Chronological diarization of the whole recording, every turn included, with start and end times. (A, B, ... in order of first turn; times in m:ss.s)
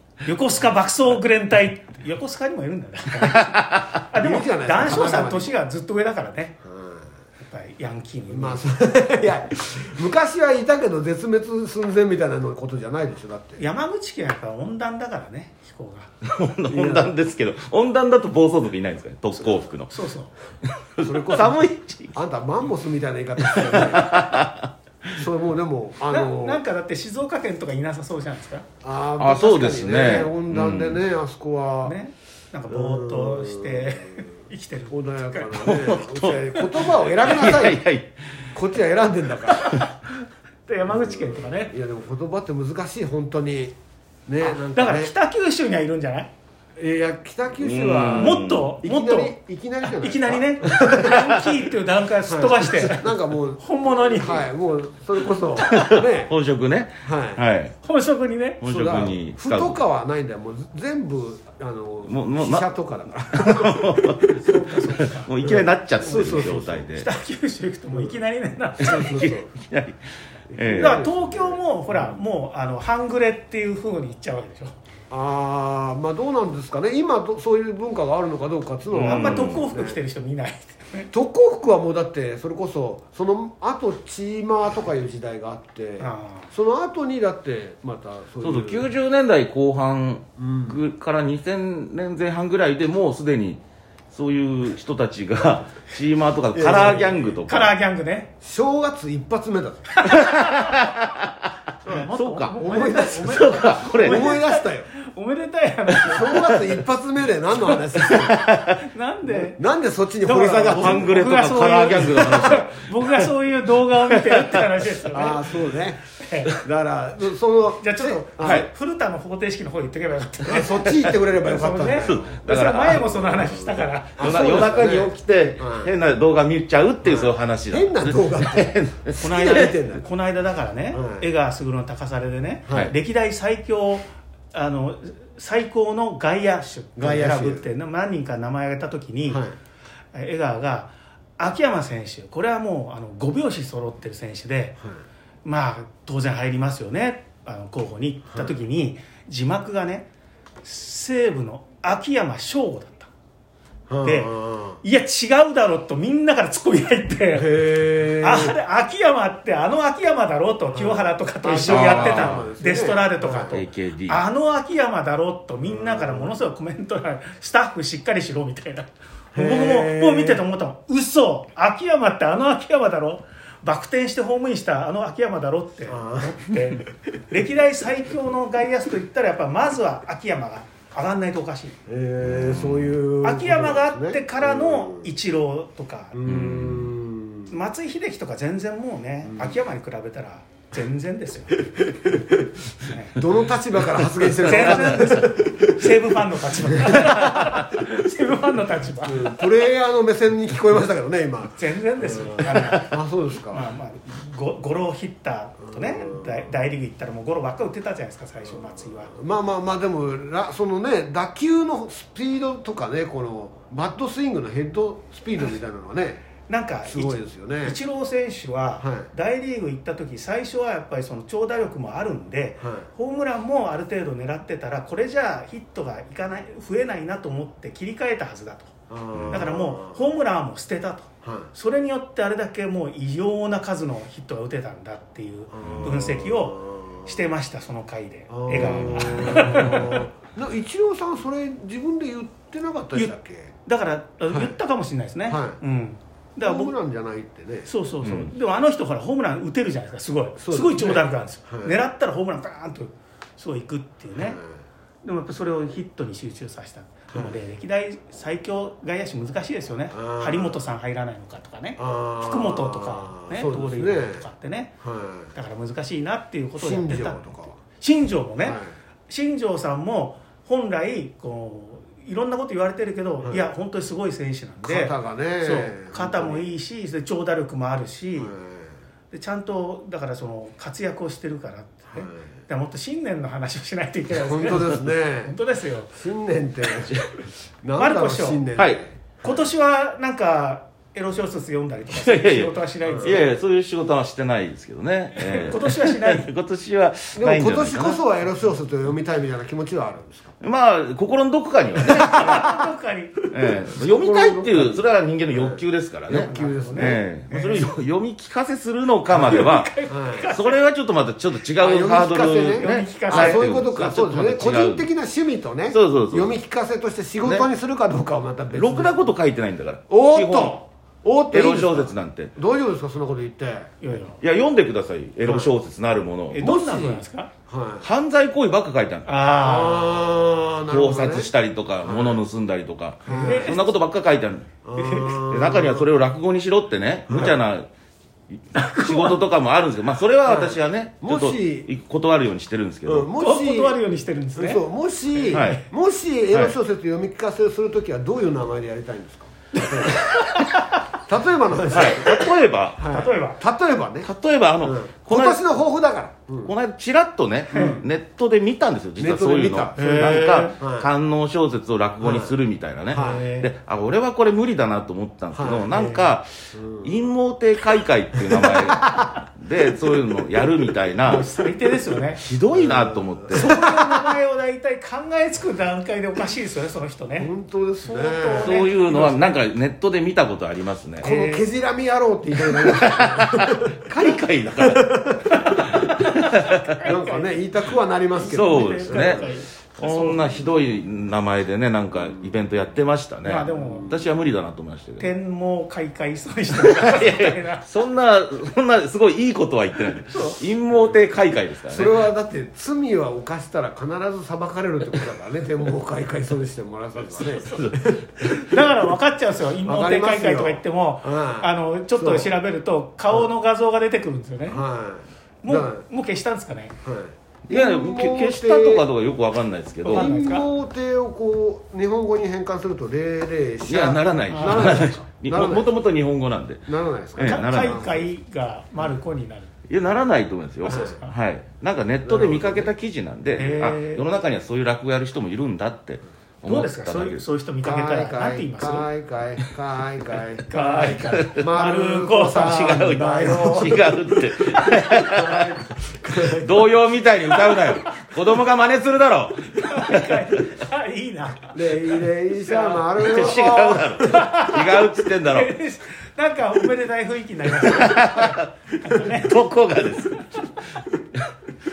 0:00.2-0:06.6 A
0:04.1-0:05.5 B
0:06.6-0:07.1 B
0:07.4-0:08.7 A
0:08.3-0:13.6 B
0:13.6-0:16.1 A
0:16.2-0:19.9 C
0:16.7-0:17.1 B
0:19.9-0:20.3 A
0:20.8-0:22.2 C
0:21.0-0:24.2 B
0:23.4-0:24.7 C
0:25.2-0:26.6 B
0:26.1-0:28.7 A
0:28.8-0:32.0 B
0:29.2-0:31.0 C
0:31.8-0:35.8 A
0:32.7-0:34.3 B
0:34.9-0:37.8 B
0:35.6-0:38.1 C
0:38.5-0:39.8 B
0:39.5-0:40.0 A
0:40.7-0:41.8 A
0:40.9-0:43.8 B
0:44.3-0:45.1 B
0:44.4-0:46.3 A
0:46.8-0:51.3 B
0:47.6-0:48.7 C
0:48.1-0:54.5 A
0:52.3-0:56.3 B
0:55.6-0:57.8 C
0:57.0-0:57.4 B
0:57.8-0:58.6 A
0:58.6-0:59.8 C
0:58.6-1:04.6 B
1:02.1-1:02.7 C
1:03.3-1:04.3 C
1:04.3-1:05.3 A
1:04.9-1:07.1 C
1:05.4-1:06.9 B
1:06.1-1:09.3 A
1:08.8-1:09.5 B
1:08.9-1:10.0 C
1:10.5-1:12.2 B
1:10.5-1:11.1 C
1:10.8-1:14.8 A
1:15.1-1:20.0 B
1:18.9-1:19.6 C
1:19.0-1:21.1 A
1:21.1-1:28.9 B
1:26.0-1:26.5 A
1:28.4-1:37.7 C
1:30.4-1:30.8 B
1:36.5-1:37.2 B
1:36.6-1:38.3 A
1:38.4-1:40.0 B
1:39.9-1:40.9 A
1:40.1-1:41.3 C
1:41.8-1:46.6 A
1:42.1-1:42.6 C
1:42.6-1:44.9 B
1:43.2-1:44.3 C
1:46.0-1:48.4 B
1:48.0-1:48.8 C
1:48.8-1:49.6 A
1:49.3-1:51.2 B
1:50.2-1:55.5 A
1:50.6-1:53.3 C
1:54.1-1:54.6 C
1:55.1-1:58.7 B
1:56.2-1:56.6 A
1:57.8-2:04.6 A
1:58.4-1:58.7 C
2:00.5-2:02.4 B
2:02.0-2:03.6 C
2:04.2-2:05.9 B
2:04.2-2:09.7 C
2:07.0-2:10.1 B
2:09.2-2:19.4 A
2:10.9-2:11.3 B
2:12.7-2:12.9 B
2:17.0-2:17.7 B
2:19.3-2:19.6 B
2:20.1-2:24.8 A
2:25.4-2:30.1 A
2:30.6-2:33.1 A
2:33.9-2:34.8 B
2:34.0-2:37.6 A
2:37.3-2:38.6 B
2:38.2-3:01.8 A
2:40.7-2:43.6 B
2:41.6-2:42.5 C
2:43.5-2:44.3 C
2:45.6-2:46.4 B
2:49.3-2:50.4 B
2:55.9-2:56.4 B
3:01.9-3:05.1 B
3:02.2-3:03.0 C
3:03.2-3:06.3 A
3:06.1-3:07.5 B
3:06.2-3:06.9 C
3:07.5-3:11.6 A
3:09.2-3:09.6 B
3:11.6-3:17.3 B
3:12.8-3:13.2 A
3:14.4-3:19.4 A
3:19.0-3:23.7 B
3:21.6-3:23.0 A
3:23.5-3:29.1 A
3:25.7-3:26.5 B
3:29.1-3:36.2 B
3:36.5-3:48.7 A
3:36.8-3:37.8 B
3:38.8-3:39.1 B
3:42.6-3:42.9 B
3:48.9-3:50.0 B
3:49.3-4:00.1 A
3:51.2-3:51.5 B
3:55.5-3:57.0 B
3:58.3-4:03.5 B
3:58.5-3:59.7 C
4:02.9-4:06.8 A
4:05.3-4:05.6 B
4:06.4-4:07.7 B
4:07.7-4:14.4 A
4:08.0-4:08.3 C
4:10.4-4:11.8 B
4:14.2-4:14.5 B
4:15.0-4:24.7 A
4:17.1-4:17.4 B
4:19.9-4:20.6 B
4:21.8-4:24.3 B
4:24.8-4:25.3 B
4:25.3-4:38.4 A
4:26.6-4:27.6 B
4:28.4-4:28.7 B
4:34.6-4:36.5 B
4:38.2-4:38.7 B
4:39.1-4:45.9 A
4:41.9-4:42.3 B
4:44.1-4:45.4 B
4:45.9-4:47.0 B
4:47.6-4:49.4 B
4:47.8-4:48.5 A
4:48.6-4:48.8 C
4:49.2-4:53.3 A
4:51.9-4:58.0 C
4:52.9-4:53.2 B
4:55.2-4:56.3 A
4:57.2-5:00.3 B
5:00.4-5:02.5 C
5:01.8-5:02.5 B
5:02.0-5:03.2 A
5:03.3-5:09.7 C
5:03.7-5:07.0 B
5:06.2-5:07.7 A
5:09.2-5:10.3 B
5:09.2-5:10.6 A
5:10.3-5:14.9 C
5:11.6-5:19.1 B
5:12.6-5:13.5 A
5:15.7-5:16.4 C
5:18.5-5:20.6 C
5:19.9-5:23.7 B
5:21.3-5:22.3 C
5:23.8-5:24.2 A
5:24.2-5:26.4 C
5:25.2-5:25.5 B
5:26.3-5:27.3 A
5:26.4-5:27.9 B
5:27.8-5:29.1 C
5:29.0-5:30.0 A
5:29.4-5:31.3 B
5:30.7-5:34.5 C
5:31.8-5:32.2 B
5:33.0-5:33.6 B
5:33.1-5:33.8 A
5:34.6-5:35.9 B
5:34.8-5:35.2 A
5:35.1-5:37.7 C
5:37.1-5:37.4 B
5:38.3-5:43.1 C
5:38.5-5:39.2 A
5:40.2-5:41.7 B
5:42.9-5:43.8 B
5:43.2-5:45.6 A
5:44.4-5:50.1 B
5:45.3-5:45.6 C
5:49.6-5:50.9 A
5:51.1-5:54.1 B
5:51.7-5:52.9 C
5:52.9-5:53.4 A
5:54.0-5:55.4 C
5:54.6-5:56.5 B
5:56.4-6:11.3 C
5:57.5-5:57.8 B
5:57.5-5:57.8 A
5:59.0-6:00.9 B
5:59.8-6:00.6 A
6:02.0-6:02.3 B
6:02.9-6:03.2 B
6:02.9-6:03.5 A
6:05.3-6:06.9 B
6:08.2-6:09.2 B
6:11.0-6:12.2 A
6:12.2-6:13.6 C
6:12.5-6:14.1 B
6:13.3-6:19.4 A
6:17.2-6:18.6 B
6:18.4-6:21.1 C
6:21.0-6:23.8 B
6:21.0-6:21.5 A
6:22.5-6:26.8 C
6:24.6-6:25.9 B
6:25.3-6:27.4 A
6:26.8-6:29.4 B
6:28.2-6:30.4 A
6:28.3-6:29.3 C
6:29.8-6:35.1 C
6:33.2-6:33.9 A
6:33.5-6:34.1 B
6:35.0-6:37.6 A
6:36.6-6:42.0 C
6:40.1-6:40.4 A
6:41.7-6:48.4 B
6:47.2-6:47.8 C
6:48.2-6:54.6 A
6:49.6-6:52.3 B
6:54.5-6:55.8 B
6:55.4-6:56.8 A
6:56.8-6:58.9 B
6:57.5-7:00.1 C
6:59.8-7:00.5 A
6:59.9-7:05.7 B
7:03.6-7:08.1 C
7:04.3-7:04.9 A
7:06.7-7:07.9 B
7:07.2-7:09.5 A
7:09.7-7:17.2 C
7:10.6-7:11.1 A
7:10.7-7:11.0 B
7:12.0-7:12.7 B
7:13.4-7:14.0 A
7:16.5-7:18.9 A
7:17.6-7:23.9 B
7:20.5-7:23.8 A
7:21.1-7:21.4 C
7:22.3-7:25.6 C
7:24.7-7:26.7 B
7:26.2-7:30.2 C
7:29.6-7:39.4 A
7:31.5-7:34.3 B
7:33.0-7:35.5 C
7:37.6-7:38.5 C
7:39.0-7:40.2 C
7:40.2-7:40.4 A